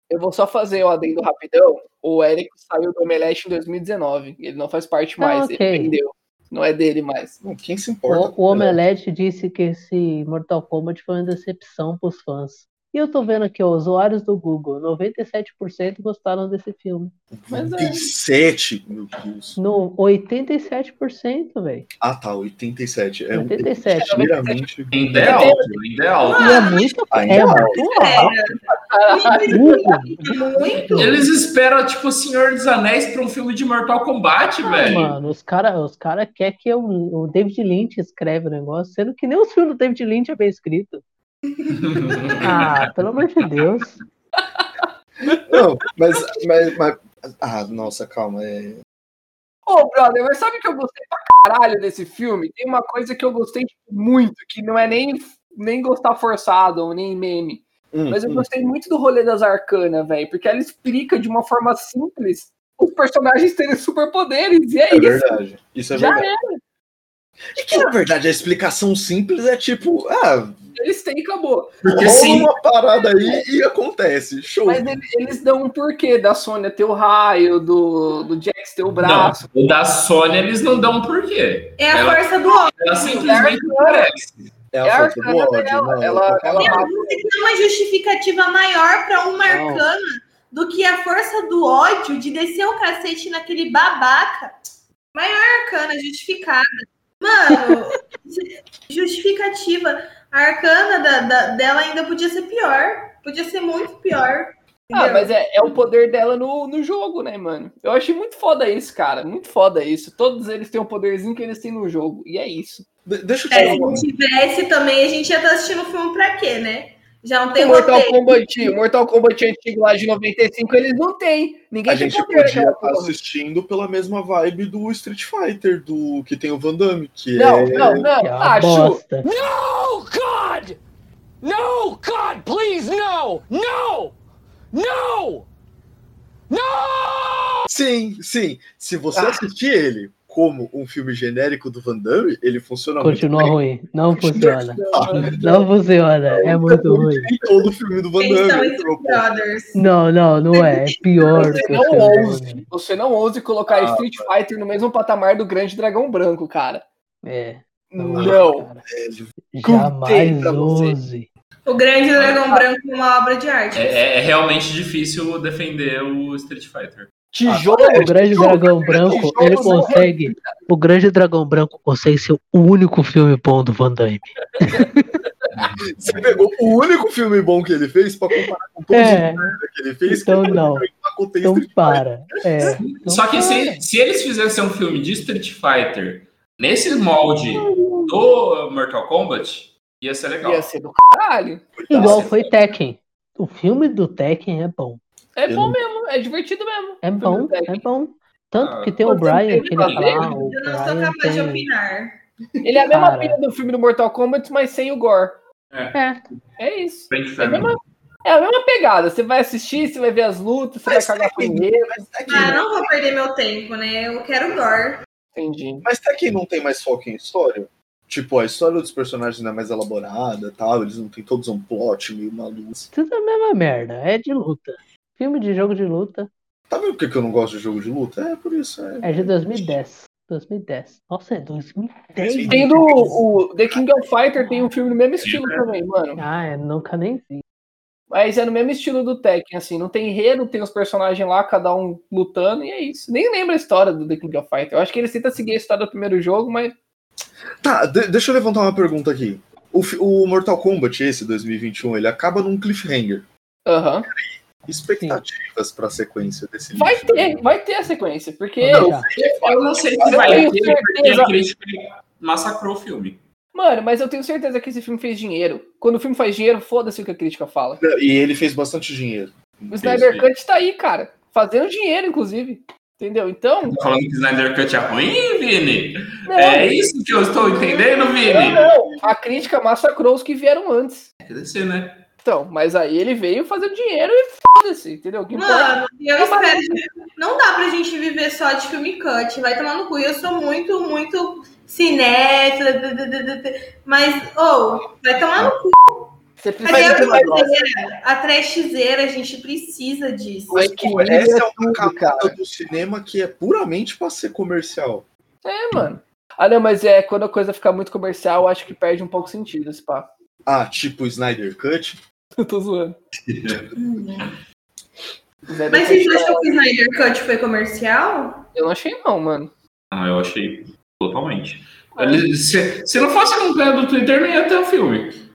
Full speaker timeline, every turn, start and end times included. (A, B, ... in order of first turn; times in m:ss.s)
0:00.1-0:07.4 A
0:05.2-0:06.0 B
0:07.4-0:08.8 C
0:08.1-0:17.1 B
0:17.3-0:19.6 C
0:17.5-0:18.1 A
0:19.6-0:21.9 B
0:22.0-0:25.6 C
0:23.3-0:24.3 B
0:24.0-0:24.7 A
0:24.9-0:26.8 D
0:25.2-0:25.7 A
0:26.2-0:31.2 E
0:26.4-0:28.3 B
0:27.1-0:28.3 C
0:28.9-0:29.8 A
0:29.5-0:31.2 B
0:30.9-0:35.2 D
0:34.7-0:41.0 B
0:41.7-0:42.9 D
0:42.4-0:44.0 B
0:45.3-0:48.8 C
0:49.7-1:05.4 A
0:57.9-0:58.5 C
1:04.9-1:06.3 C
1:05.9-1:06.6 A
1:07.5-1:10.6 C
1:10.8-1:11.8 A
1:11.8-1:12.5 D
1:12.0-1:14.8 C
1:14.7-1:19.4 A
1:19.0-1:24.5 D
1:21.8-1:23.3 E
1:23.0-1:24.3 A
1:24.7-1:26.9 C
1:24.8-1:27.2 A
1:26.6-1:34.5 E
1:29.5-1:29.8 B
1:35.1-1:36.7 E
1:37.2-1:45.3 E
1:44.9-1:52.9 A
1:53.1-1:54.1 C
1:53.5-1:58.4 E
1:57.6-2:03.2 A
2:01.9-2:08.1 C
2:07.4-2:09.0 A
2:08.2-2:09.3 B
2:09.2-2:10.8 F
2:11.4-2:14.1 F
2:14.7-2:15.4 F
2:16.5-2:17.7 F
2:17.7-2:23.6 C
2:19.2-2:19.4 A
2:23.0-2:27.3 B
2:24.2-2:25.6 A
2:24.9-2:25.6 C
2:26.3-2:29.3 C
2:28.2-2:29.8 E
2:29.8-2:32.6 B
2:30.6-2:31.8 E
2:31.4-2:36.8 A
2:31.9-2:32.1 C
2:33.7-2:34.3 C
2:37.2-2:38.8 B
2:37.9-2:38.7 A
2:38.2-2:39.3 C
2:39.5-2:41.3 B
2:39.6-2:41.0 A
2:41.7-2:44.0 E
2:42.2-2:42.4 D
2:43.7-2:47.1 D
2:47.3-2:50.5 A
2:47.4-2:49.8 C
2:47.8-2:55.1 B
2:56.0-3:02.1 C
2:58.9-3:00.9 B
3:01.4-3:03.8 B
3:02.8-3:10.7 D
3:07.7-3:08.0 A
3:10.4-3:11.6 A
3:11.8-3:12.4 C
3:11.9-3:15.0 B
3:12.0-3:12.3 D
3:15.4-3:17.8 A
3:15.5-3:15.8 C
3:17.0-3:21.7 B
3:18.6-3:19.0 D
3:19.1-3:20.2 A
3:19.6-3:20.3 D
3:20.2-3:22.2 E
3:22.6-3:25.4 A
3:22.9-3:23.4 B
3:25.7-3:26.3 D
3:25.9-3:26.2 B
3:26.6-3:32.5 A
3:27.1-3:27.8 D
3:30.9-3:32.9 C
3:32.3-3:35.0 E
3:35.4-3:35.9 A
3:35.8-3:42.9 C
3:42.9-3:46.3 B
3:46.7-3:49.8 C
3:49.0-3:53.2 B
3:52.2-3:54.1 C
3:52.5-3:56.2 A
3:55.2-3:55.6 D
3:56.2-3:57.4 B
3:58.1-4:06.8 A
4:07.6-4:13.3 C
4:13.7-4:14.1 A
4:14.1-4:17.4 C
4:15.0-4:15.2 B
4:16.7-4:21.3 A
4:18.6-4:19.1 B
4:18.7-4:20.5 C
4:19.2-4:23.2 D
4:23.5-4:27.8 A
4:27.8-4:30.1 C
4:29.7-4:33.8 A
4:29.8-4:30.3 D
4:33.7-4:38.7 D
4:36.3-4:36.9 A
4:37.3-4:39.0 E
4:38.3-4:41.1 A
4:41.2-4:42.0 D
4:42.2-4:46.8 A
4:45.4-4:56.1 E
4:56.4-4:57.5 A
4:56.6-5:00.6 E
4:56.7-4:57.5 C
5:00.5-5:02.4 A
5:00.5-5:05.1 C
5:05.4-5:10.1 A
5:10.5-5:12.0 C
5:12.4-5:13.0 A
5:13.3-5:13.7 D
5:13.8-5:14.3 E
5:15.5-5:16.5 A
5:15.7-5:18.4 E
5:18.6-5:19.5 A
5:19.9-5:25.2 D
5:22.0-5:22.3 A